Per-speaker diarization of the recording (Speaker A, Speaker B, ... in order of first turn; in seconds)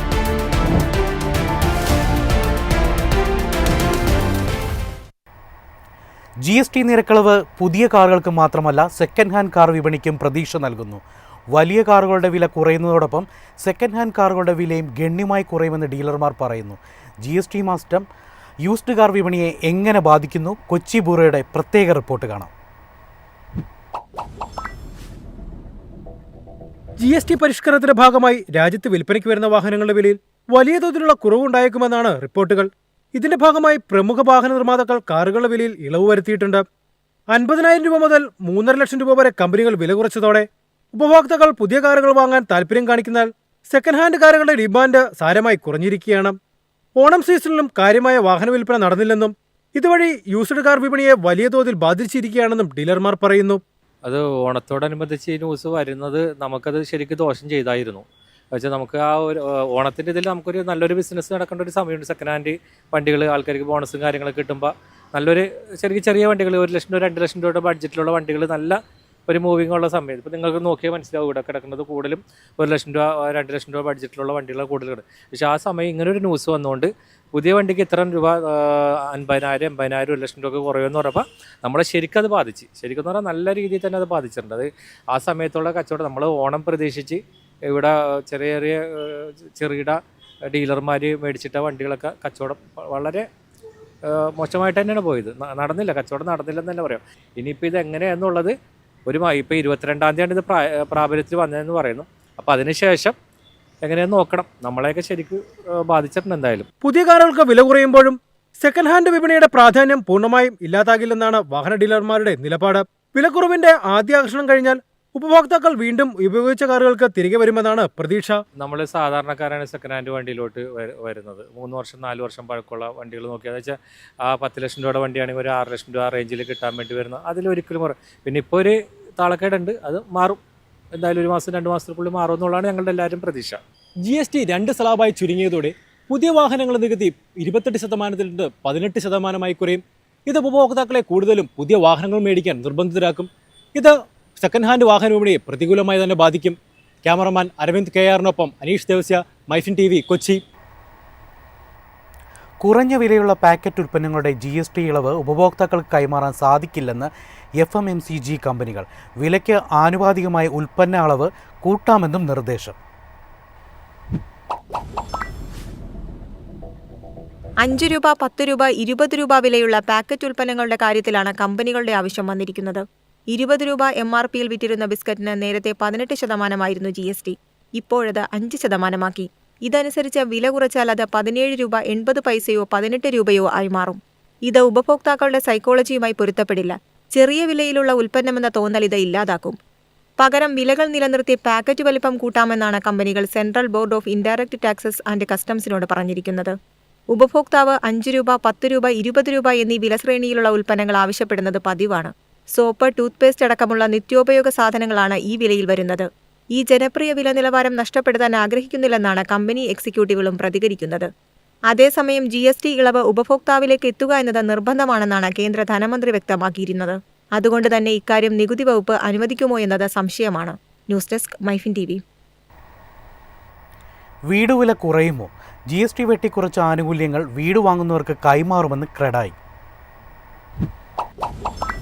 Speaker A: 6.5-11.0, 11.6-18.0, 18.6-22.5, 152.6-157.1, 157.6-162.7, 224.3-229.3
Speaker B: 27.0-36.6, 37.3-46.4, 47.0-53.6, 106.8-118.4
Speaker C: 54.1-90.0, 90.5-93.2, 94.1-98.5, 99.1-103.2, 103.8-106.7, 118.6-130.4, 131.0-133.6
Speaker D: 134.0-150.4
Speaker E: 167.6-189.6, 190.2-196.6, 197.1-211.1, 211.7-222.0